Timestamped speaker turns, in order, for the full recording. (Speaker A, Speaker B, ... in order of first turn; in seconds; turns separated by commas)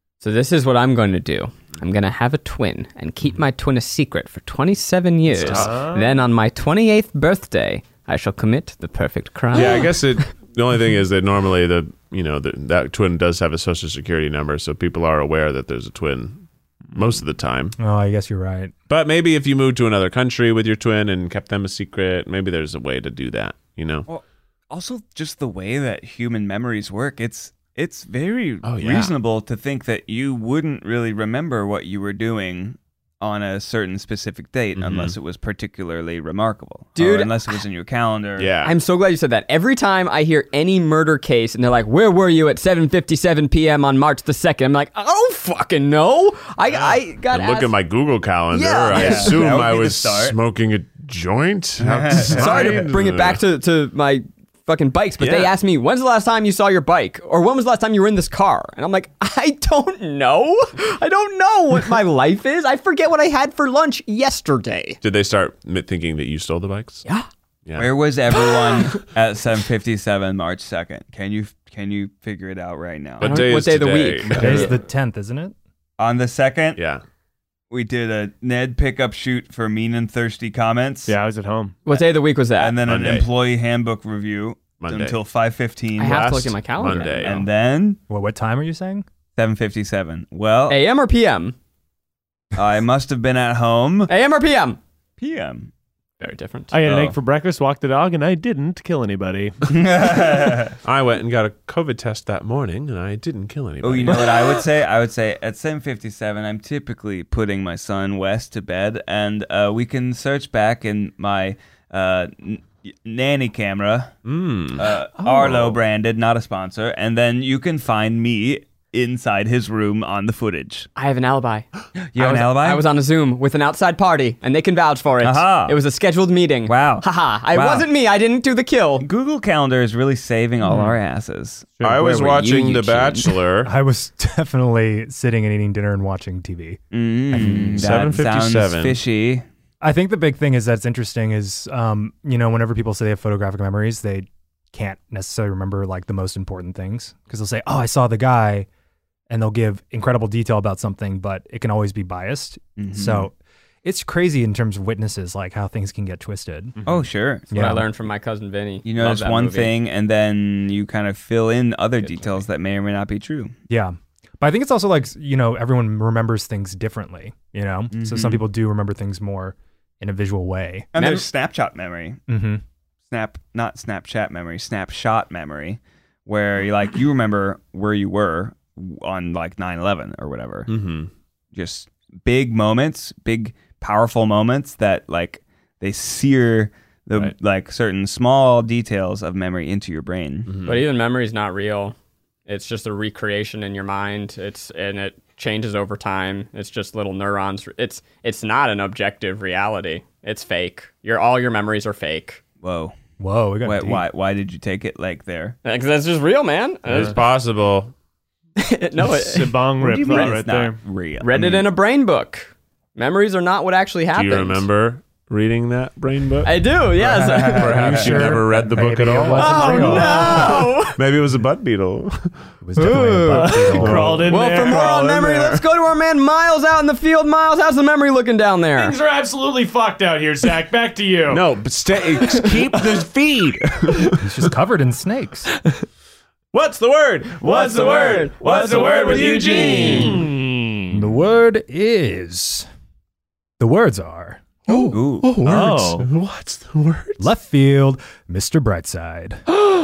Speaker A: 0.2-10.0, Speaker B: 5.3-5.7, Speaker C: 5.3-6.2, Speaker B: 9.5-17.8, Speaker D: 17.8-18.7, Speaker B: 18.9-24.1, Speaker E: 24.1-38.5, Speaker B: 28.6-29.1, Speaker B: 34.8-35.1, Speaker A: 37.0-37.3, Speaker B: 38.4-38.8, Speaker A: 38.6-47.7, Speaker B: 46.7-53.4, Speaker A: 48.5-49.4, Speaker E: 48.9-50.4, Speaker E: 51.8-52.9, Speaker A: 52.3-65.0, Speaker B: 55.2-55.5, Speaker B: 65.0-67.0, Speaker B: 67.7-67.9, Speaker E: 67.8-73.5, Speaker B: 73.2-74.7, Speaker A: 73.2-74.7, Speaker D: 74.4-75.5, Speaker E: 76.0-76.8, Speaker B: 76.8-77.0, Speaker E: 77.7-81.1, Speaker C: 81.1-81.8, Speaker A: 81.9-82.8, Speaker E: 81.9-86.3, Speaker B: 82.8-83.3, Speaker B: 84.8-85.2, Speaker A: 86.0-87.3, Speaker B: 86.0-87.5, Speaker E: 87.0-88.0, Speaker D: 88.1-89.1, Speaker E: 89.4-90.8, Speaker A: 90.7-91.5, Speaker E: 92.5-94.1, Speaker A: 94.1-94.8, Speaker E: 95.2-95.7, Speaker A: 96.2-96.7, Speaker C: 96.7-99.7, Speaker E: 96.8-97.2, Speaker E: 99.7-100.8, Speaker B: 100.8-104.6, Speaker E: 103.8-114.1, Speaker B: 114.2-115.7, Speaker E: 114.7-120.9, Speaker A: 121.0-129.1, Speaker E: 122.0-122.8, Speaker E: 125.2-125.8, Speaker E: 126.7-127.9, Speaker E: 129.0-132.0, Speaker B: 131.8-133.7, Speaker A: 132.0-133.3, Speaker D: 133.6-136.8, Speaker E: 136.9-139.4, Speaker D: 137.3-137.8, Speaker B: 137.5-139.0, Speaker D: 139.8-148.7, Speaker D: 149.3-156.8, Speaker E: 152.8-153.3, Speaker E: 156.8-157.5, Speaker D: 157.5-157.9, Speaker A: 157.5-159.7, Speaker E: 158.8-163.6, Speaker A: 162.0-162.4, Speaker D: 163.7-170.9, Speaker E: 167.9-168.5, Speaker E: 170.9-172.2, Speaker A: 171.0-171.3, Speaker D: 172.3-172.6, Speaker E: 173.1-180.7, Speaker B: 180.7-181.1, Speaker E: 181.5-190.5, Speaker B: 190.5-190.8, Speaker A: 190.7-191.9, Speaker A: 192.5-202.4, Speaker E: 202.6-203.0, Speaker D: 203.2-204.0, Speaker E: 203.6-205.6, Speaker A: 205.6-207.2, Speaker B: 206.9-207.9, Speaker A: 208.6-209.6, Speaker C: 209.0-210.8, Speaker E: 209.8-211.7, Speaker A: 211.2-214.7, Speaker B: 214.1-216.6, Speaker A: 216.4-217.8, Speaker E: 217.0-218.2, Speaker B: 217.4-222.3, Speaker D: 217.7-220.7, Speaker A: 219.3-221.0, Speaker D: 222.6-224.3, Speaker A: 222.8-229.0, Speaker C: 223.3-225.1, Speaker B: 223.8-225.6, Speaker C: 228.8-231.4, Speaker B: 231.3-234.2, Speaker D: 234.2-235.5, Speaker B: 236.5-240.2, Speaker A: 237.4-240.2, Speaker C: 237.5-241.1, Speaker D: 240.9-242.7, Speaker D: 243.6-244.5, Speaker B: 244.7-247.3, Speaker E: 244.9-245.3, Speaker C: 245.4-246.1, Speaker D: 247.2-249.4